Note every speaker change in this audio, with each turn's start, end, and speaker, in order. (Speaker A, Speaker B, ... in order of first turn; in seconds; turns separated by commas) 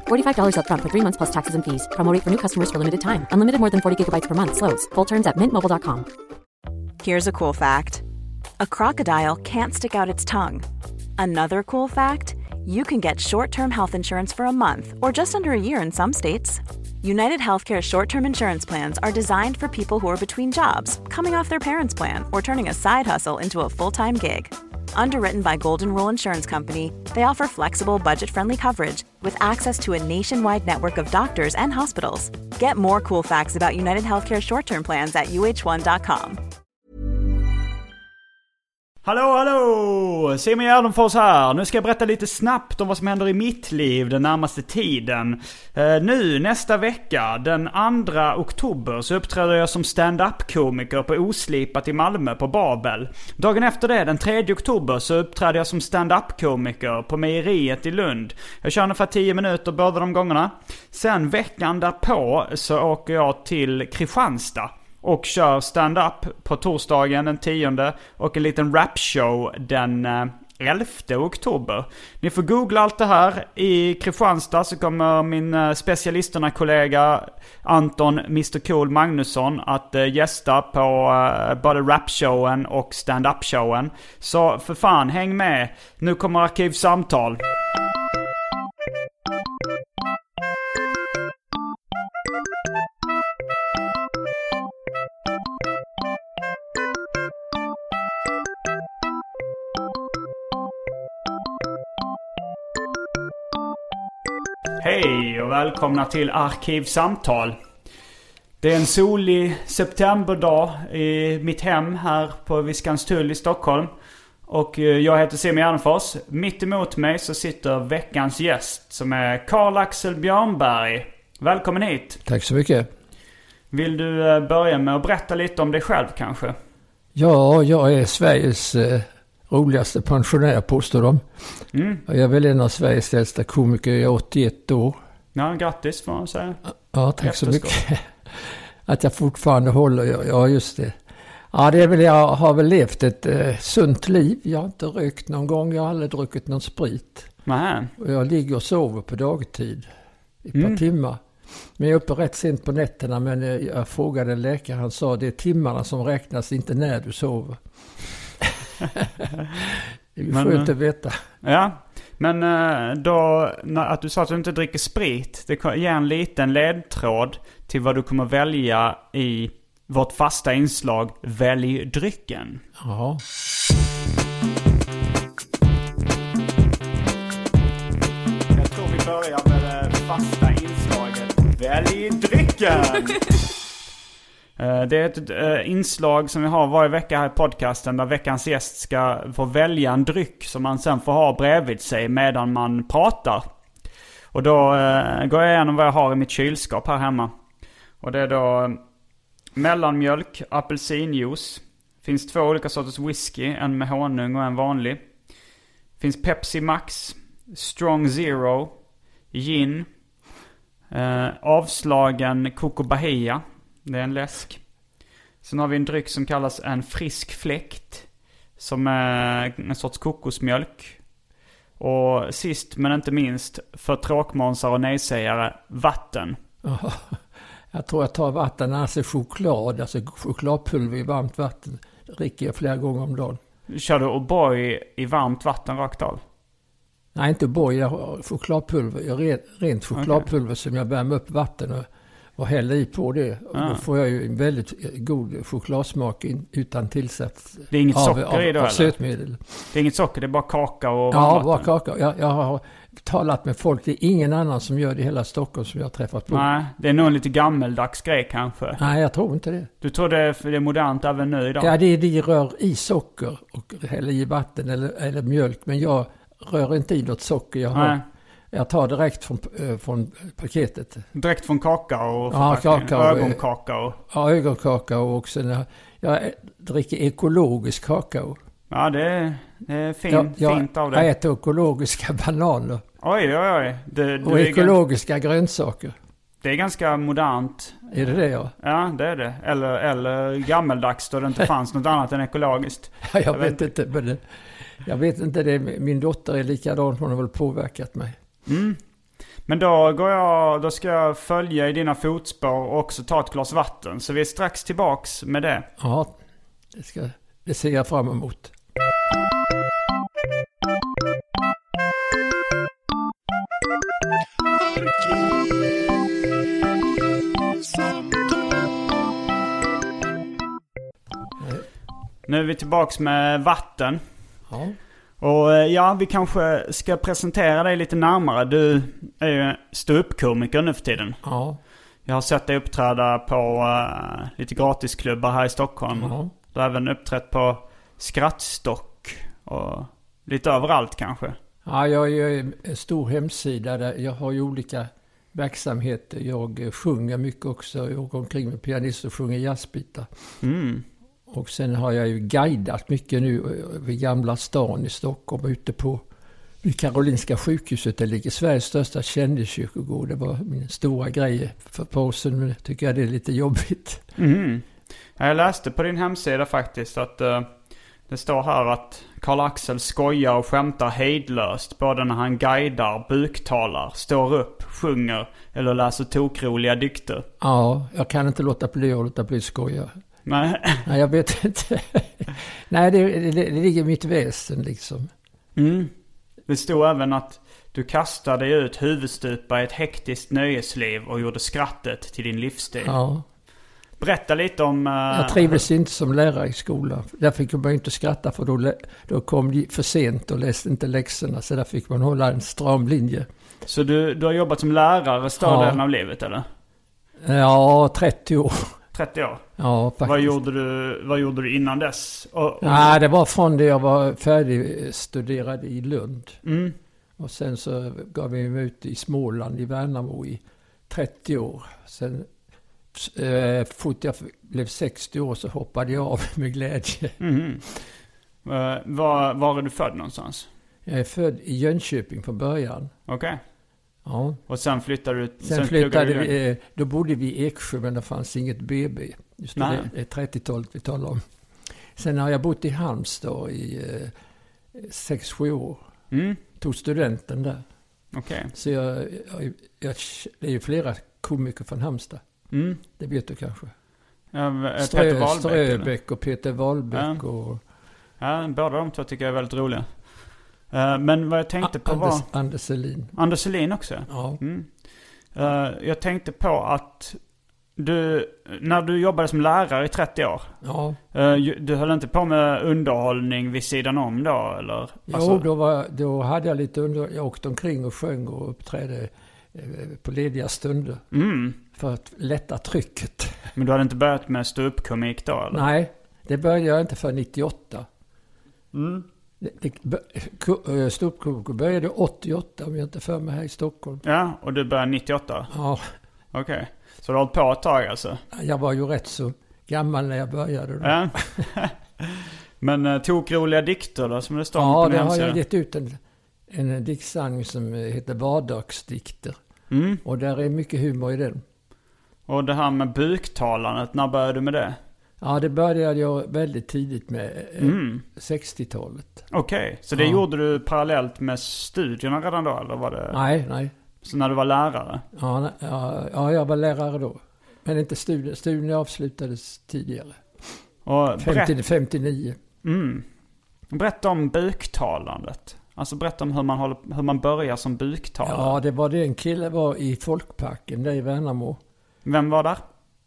Speaker A: 0.1-6.1, Speaker B: 7.0-8.0, Speaker B: 8.6-10.7, Speaker B: 11.2-36.4, Speaker C: 39.0-87.4, Speaker C: 104.8-107.6, Speaker C: 108.6-113.9, Speaker C: 114.5-122.2, Speaker D: 122.2-122.9, Speaker C: 123.7-126.5, Speaker D: 127.2-131.2, Speaker C: 131.7-132.0, Speaker D: 132.1-135.0, Speaker C: 135.3-136.6, Speaker D: 136.9-140.9, Speaker C: 137.2-137.8, Speaker D: 141.5-147.3, Speaker C: 147.5-147.9, Speaker D: 148.0-149.9, Speaker D: 150.4-151.2, Speaker C: 150.6-150.8, Speaker D: 151.8-157.6, Speaker D: 158.4-159.2, Speaker D: 160.2-161.2, Speaker C: 160.3-160.7, Speaker C: 161.4-172.6, Speaker D: 172.8-173.2, Speaker C: 178.5-183.4, Speaker C: 184.6-193.4, Speaker C: 194.3-197.3, Speaker C: 198.0-198.8, Speaker C: 199.6-205.0, Speaker C: 206.0-208.7, Speaker C: 209.3-209.9, Speaker C: 210.9-214.6, Speaker C: 215.4-218.1, Speaker C: 218.6-221.0, Speaker C: 221.8-226.4, Speaker D: 226.6-227.2, Speaker D: 227.7-233.4, Speaker C: 233.7-236.2, Speaker D: 237.2-249.7, Speaker C: 239.9-240.3, Speaker C: 243.5-243.8, Speaker C: 247.7-248.9, Speaker C: 249.7-251.7, Speaker D: 251.1-256.5, Speaker C: 256.3-258.8, Speaker D: 258.8-259.7, Speaker C: 259.8-261.7, Speaker D: 261.6-268.0, Speaker C: 267.7-268.0, Speaker D: 268.5-271.1, Speaker C: 271.1-274.0, Speaker D: 272.3-273.4, Speaker D: 274.0-278.4, Speaker C: 278.7-281.1, Speaker D: 280.1-282.8, Speaker C: 283.0-284.8, Speaker D: 284.2-285.9, Speaker C: 286.4-287.9, Speaker D: 287.9-288.5, Speaker C: 288.6-293.7, Speaker D: 293.0-294.2, Speaker D: 294.8-298.2, Speaker C: 298.5-298.8, Speaker C: 299.5-305.7, Speaker D: 305.8-306.1, Speaker D: 306.7-308.5, Speaker D: 321.4-321.6, Speaker C: 322.3-324.0, Speaker D: 324.5-324.8, Speaker C: 325.2-331.2, Speaker D: 331.2-331.6, Speaker C: 332.1-341.4, Speaker D: 335.9-336.3, Speaker D: 341.6-350.1, Speaker C: 350.4-350.9, Speaker D: 351.3-356.0, Speaker D: 356.6-364.0, Speaker C: 364.2-367.5, Speaker C: 368.1-377.3, Speaker D: 377.4-379.9, Speaker C: 380.3-380.9, Speaker D: 380.9-385.1, Speaker C: 385.6-385.9, Speaker C: 386.5-393.0, Speaker D: 392.8-393.2, Speaker C: 394.0-395.6, Speaker D: 395.1-403.3, Speaker C: 403.7-406.4, Speaker D: 405.4-405.8, Speaker D: 407.2-408.8, Speaker C: 408.9-409.4, Speaker D: 409.6-410.4, Speaker C: 410.0-413.0, Speaker D: 412.6-416.4, Speaker C: 416.4-416.8, Speaker D: 417.2-422.3, Speaker D: 422.9-427.2, Speaker C: 427.2-427.6, Speaker C: 428.4-430.5, Speaker D: 430.9-432.9, Speaker C: 433.1-433.4, Speaker D: 434.1-434.4, Speaker C: 434.5-436.3, Speaker D: 435.4-441.2, Speaker C: 439.6-439.9, Speaker D: 442.0-444.1, Speaker D: 444.7-445.9, Speaker C: 446.1-446.4, Speaker D: 446.6-447.6, Speaker C: 448.1-448.5, Speaker D: 448.5-452.2, Speaker C: 452.5-452.8, Speaker D: 453.0-453.7, Speaker C: 454.3-455.9, Speaker D: 454.8-457.6, Speaker C: 456.9-457.2, Speaker C: 458.2-460.1, Speaker C: 460.7-462.3, Speaker D: 461.6-463.1, Speaker C: 463.2-464.7, Speaker D: 464.1-464.4, Speaker C: 465.3-467.2, Speaker C: 467.8-470.5, Speaker D: 470.6-471.0, Speaker C: 471.1-475.5, Speaker D: 475.1-481.0, Speaker C: 481.1-481.6, Speaker D: 481.7-483.4, Speaker C: 483.6-485.6, Speaker D: 485.5-487.9, Speaker C: 488.7-489.1, Speaker D: 489.4-494.0, Speaker C: 494.0-495.5, Speaker D: 495.5-495.9, Speaker C: 496.3-498.2, Speaker D: 498.3-501.4, Speaker C: 500.8-505.4, Speaker D: 504.6-509.4, Speaker C: 509.7-510.0, Speaker D: 510.0-511.4, Speaker C: 512.3-514.8, Speaker D: 515.2-519.2, Speaker C: 517.6-518.0, Speaker C: 519.3-523.2, Speaker D: 520.0-520.2, Speaker D: 523.1-523.7, Speaker C: 524.0-525.0, Speaker D: 525.1-530.2, Speaker C: 530.9-531.5, Speaker D: 531.2-532.4, Speaker C: 532.6-533.0, Speaker C: 533.7-538.6, Speaker D: 538.2-541.6, Speaker C: 542.0-542.6